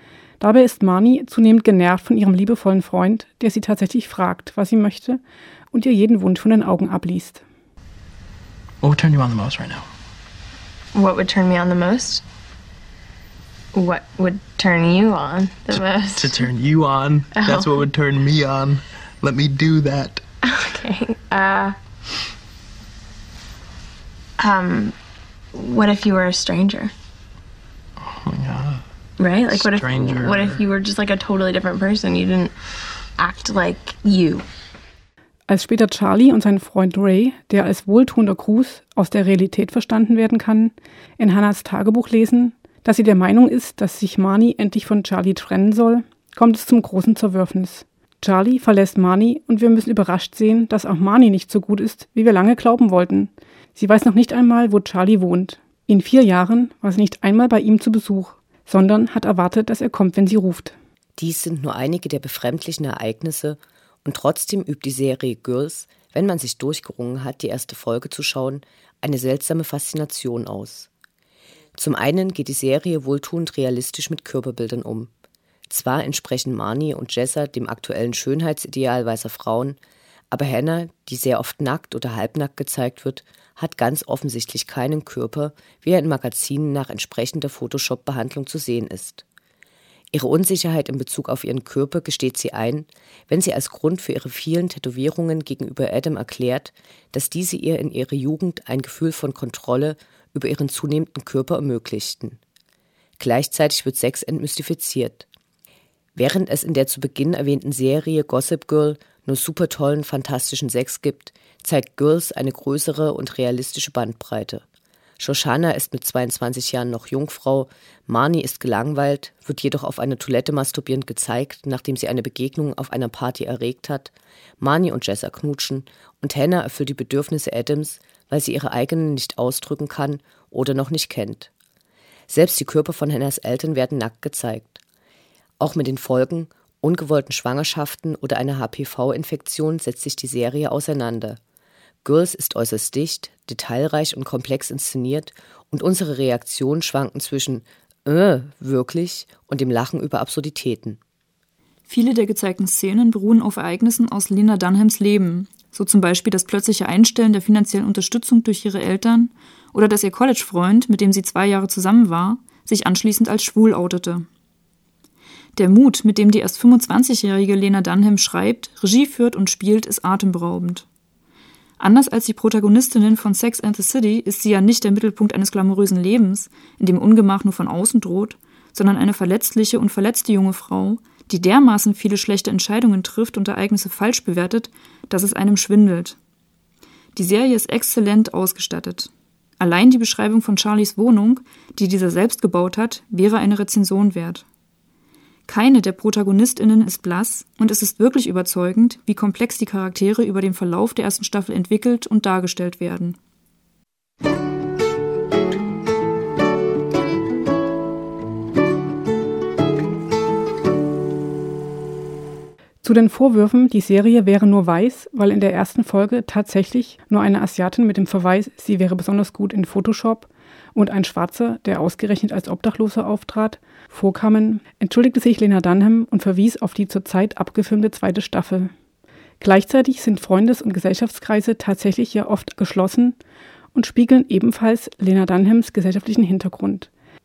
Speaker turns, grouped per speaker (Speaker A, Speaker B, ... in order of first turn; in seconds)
Speaker A: 0.4-5.2, 5.7-7.4, 35.5-60.8, 212.8-228.7, 229.4-233.2, 233.7-236.9
Speaker B: 8.8-9.8, 16.2-20.2, 28.3-28.8, 29.8-30.4
Speaker C: 10.9-12.2, 13.7-16.5, 17.3-17.9, 20.4-21.8, 24.4-24.9, 25.5-26.9, 29.2-32.5, 33.2-34.5
Speaker D: 61.2-70.9, 71.8-75.1, 75.7-79.8, 80.3-89.2, 90.1-102.4, 103.2-105.3, 106.2-114.7, 115.2-131.5, 132.3-134.8, 135.6-141.4, 142.0-151.0
Speaker E: 151.9-164.3, 165.6-170.9, 171.8-186.2, 187.2-194.4, 195.5-203.2